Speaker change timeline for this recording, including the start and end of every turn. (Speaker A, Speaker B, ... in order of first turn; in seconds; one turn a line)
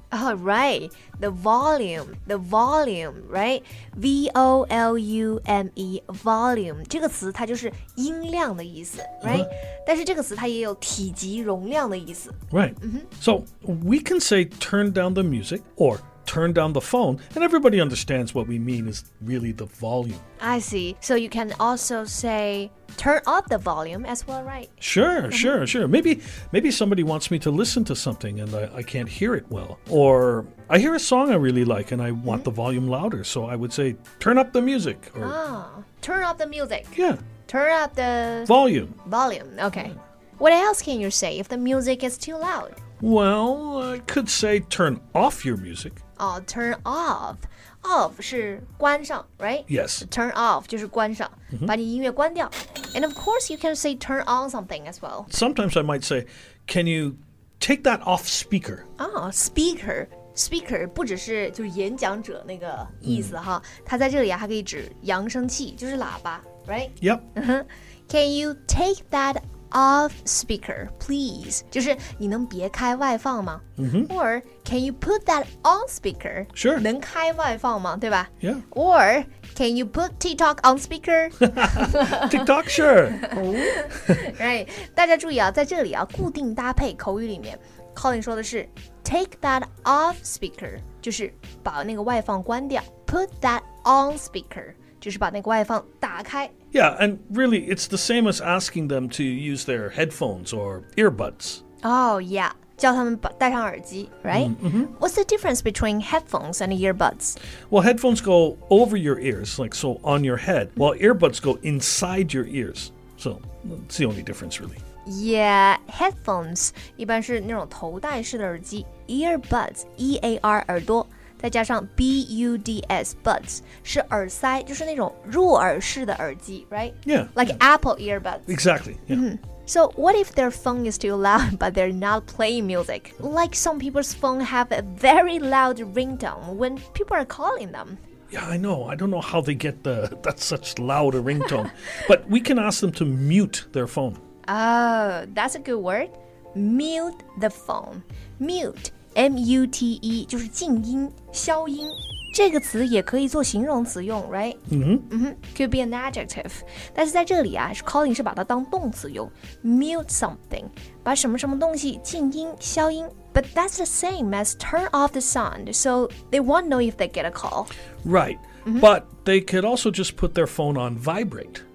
Speaker A: 0.1-13.1
Speaker B: 9.2-9.5
Speaker B: 12.5-20.2
Speaker A: 20.4-24.8
Speaker B: 24.8-35.4
Speaker A: 25.3-25.6
Speaker A: 35.2-38.5
Speaker B: 37.0-37.2
Speaker B: 38.5-39.0
Speaker A: 39.0-42.8
Speaker B: 43.0-46.0
Speaker A: 46.2-55.3
Speaker B: 49.7-50.0
Speaker B: 55.3-58.8
Speaker A: 59.0-82.3
Speaker B: 63.0-63.3
Speaker B: 73.8-74.1
Speaker B: 76.6-76.8
Speaker B: 81.4-84.2
Speaker A: 83.2-96.5
Speaker B: 96.7-101.6
Speaker A: 101.8-107.4
Speaker B: 104.3-104.9
Speaker B: 107.7-114.8
Speaker A: 115.0-128.6
Speaker B: 127.0-127.6
Speaker B: 128.5-129.2
Speaker A: 129.1-138.0
Speaker B: 138.3-144.2
Speaker A: 144.5-167.7
Speaker B: 154.7-155.1
Speaker B: 168.0-171.6